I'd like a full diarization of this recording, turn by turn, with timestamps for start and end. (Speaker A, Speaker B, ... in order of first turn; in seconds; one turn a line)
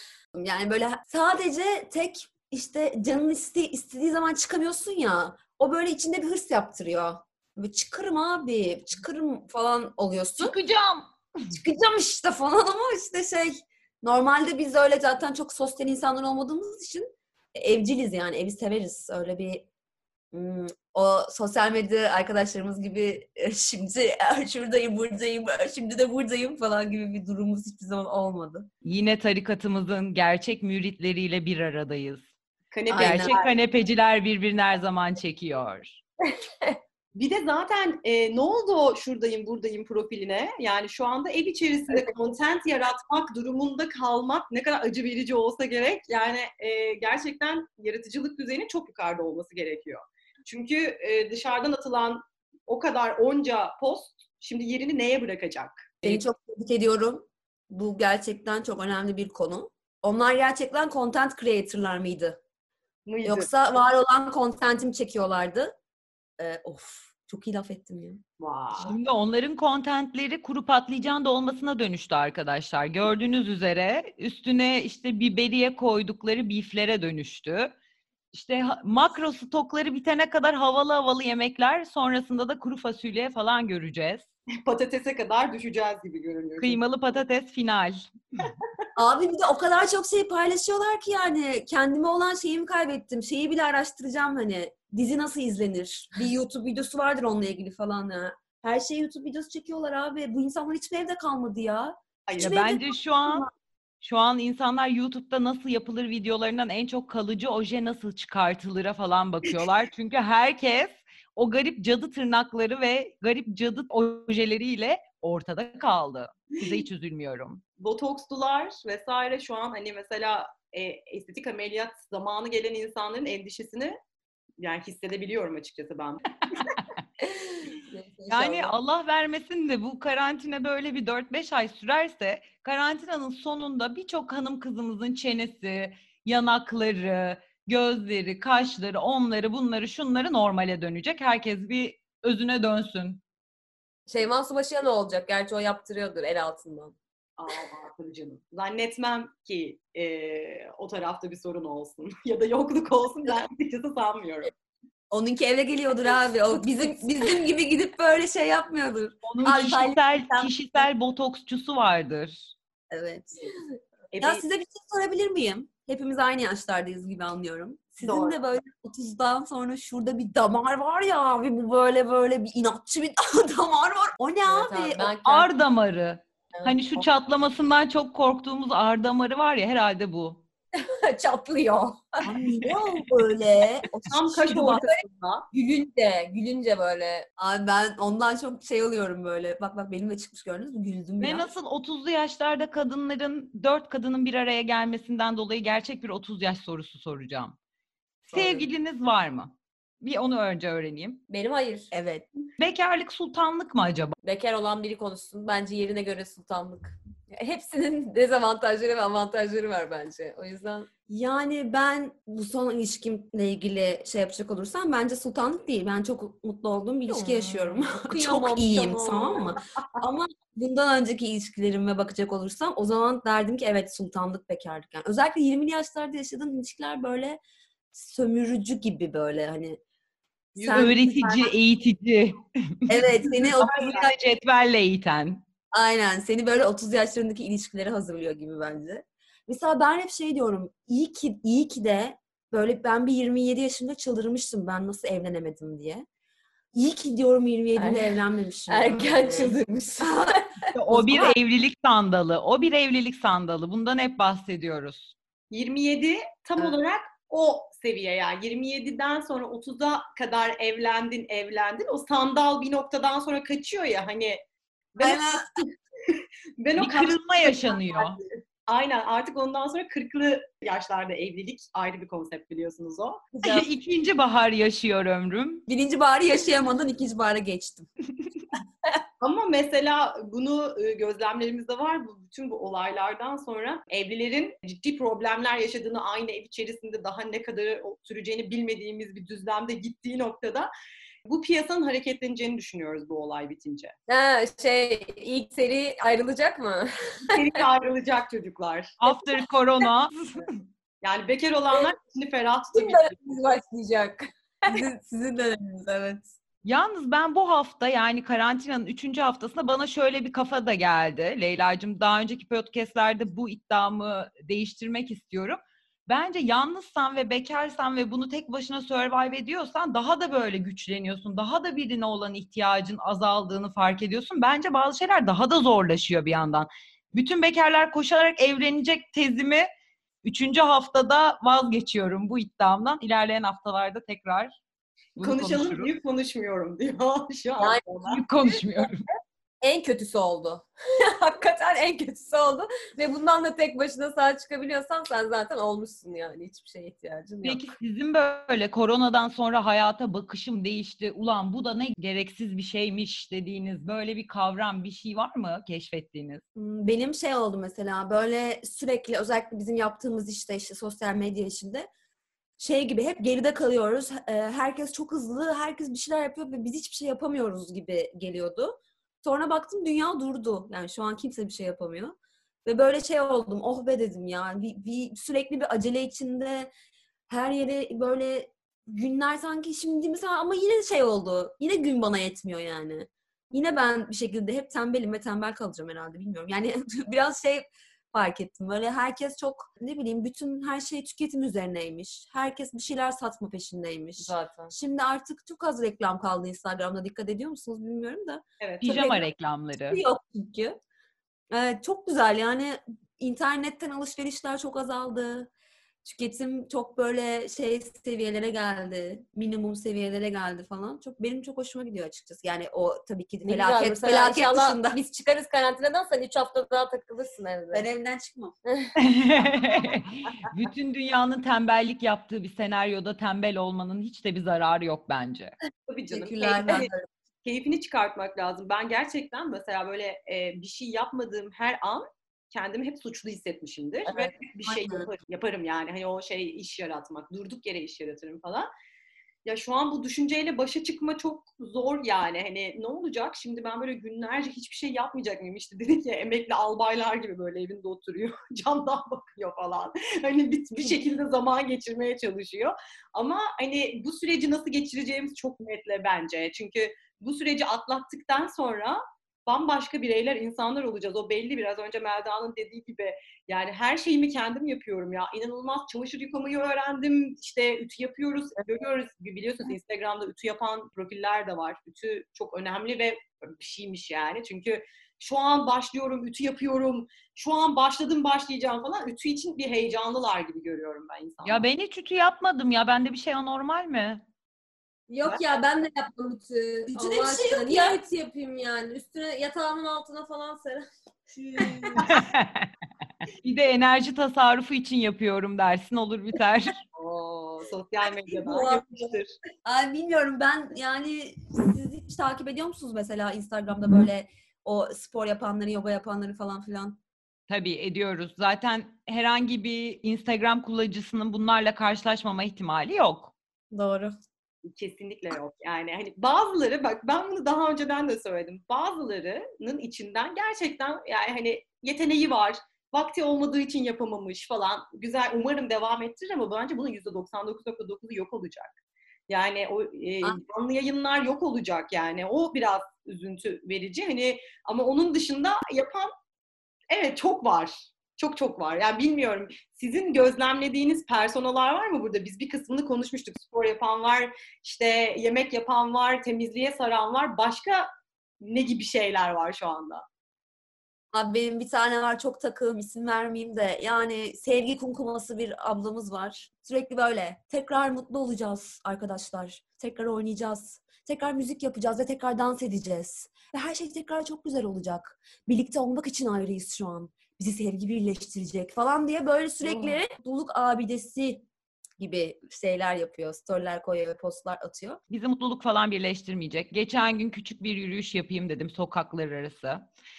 Speaker A: 0.3-10.6
Speaker B: 10.4-11.1
Speaker A: 11.5-19.7
Speaker A: 20.3-28.7
Speaker B: 28.9-32.3
Speaker C: 32.7-33.6
Speaker A: 32.9-33.3
Speaker B: 33.0-36.0
Speaker D: 36.3-36.8
Speaker C: 37.1-56.2
Speaker A: 56.0-62.4
Speaker C: 63.1-63.5
Speaker A: 63.2-65.8
Speaker A: 66.4-68.2
Speaker C: 68.4-68.9
Speaker B: 68.8-77.7
Speaker B: 78.3-84.3
Speaker C: 84.6-86.8
Speaker B: 86.6-88.1
Speaker A: 89.0-103.5
Speaker C: 102.3-102.6
Speaker B: 102.4-103.5
Speaker B: 104.0-117.6
Speaker C: 117.8-124.0
Speaker C: 124.6-126.8
Speaker B: 126.5-126.9
Speaker D: 127.2-128.7
Speaker B: 128.3-143.2
Speaker D: 144.1-147.0
Speaker C: 147.4-154.5
Speaker A: 155.1-160.5
Speaker B: 159.2-162.5
Speaker A: 162.9-163.5
Speaker C: 164.1-164.4
Speaker A: 164.2-175.1
Speaker C: 168.0-168.4
Speaker D: 174.5-175.5
Speaker B: 175.2-180.4
Speaker D: 180.8-182.2
Speaker A: 182.2-184.9
Speaker B: 182.4-183.1
Speaker C: 184.1-185.5
Speaker D: 185.5-187.3
Speaker A: 187.4-191.5
Speaker B: 191.2-197.6
Speaker B: 198.3-201.2
Speaker D: 201.3-201.9
Speaker A: 201.9-202.2
Speaker B: 202.6-204.2
Speaker D: 204.2-210.9
Speaker A: 211.1-227.4
Speaker D: 217.1-219.5
Speaker A: 227.9-229.8
Speaker C: 230.6-231.5
Speaker A: 230.6-231.0
Speaker B: 230.7-235.4
Speaker A: 232.9-234.1
Speaker C: 233.6-234.1
Speaker A: 235.7-246.1
Speaker A: 246.7-251.3
Speaker D: 247.8-248.2
Speaker D: 248.7-250.4
Speaker B: 250.7-255.2
Speaker C: 255.5-264.4
Speaker C: 264.9-273.3
Speaker A: 265.0-265.6
Speaker B: 266.8-268.2
Speaker D: 273.4-273.7
Speaker B: 273.4-275.6
Speaker A: 275.7-277.9
Speaker C: 279.2-290.7
Speaker C: 291.2-293.9
Speaker D: 294.1-297.6
Speaker C: 297.2-299.1
Speaker B: 299.0-300.6
Speaker C: 301.0-303.1
Speaker D: 302.7-306.2
Speaker A: 304.7-305.1
Speaker B: 306.6-329.7
Speaker B: 330.2-334.6
Speaker B: 335.2-335.9
Speaker C: 335.2-338.2
Speaker B: 338.1-339.1
Speaker D: 339.6-347.7
Speaker B: 347.4-356.4
Speaker A: 356.6-361.9
Speaker A: 362.6-376.7
Speaker A: 377.3-399.2
Speaker D: 394.2-394.7
Speaker C: 398.6-399.1
Speaker B: 398.8-400.0
Speaker A: 399.9-400.8
Speaker A: 401.5-405.5
Speaker A: 406.0-415.0
Speaker D: 413.4-417.8
Speaker A: 417.7-418.5
Speaker D: 418.7-418.9
Speaker B: 419.0-425.6
Speaker C: 425.9-426.9
Speaker A: 426.1-427.0
Speaker C: 427.4-438.7
Speaker D: 434.1-434.3
Speaker A: 434.6-435.1
Speaker C: 439.4-481.7
Speaker B: 481.4-484.2
Speaker D: 485.1-490.9
Speaker A: 486.9-488.0
Speaker A: 491.3-492.1
Speaker B: 492.0-492.7
Speaker B: 493.4-496.8
Speaker C: 497.0-499.4
Speaker A: 498.1-507.0
Speaker B: 507.5-513.3
Speaker A: 513.7-514.1
Speaker C: 514.7-528.7
Speaker C: 529.3-536.1
Speaker C: 536.9-547.9
Speaker C: 548.4-550.0
Speaker A: 551.1-571.5
Speaker D: 569.6-570.0
Speaker A: 572.0-575.0
Speaker B: 575.1-579.9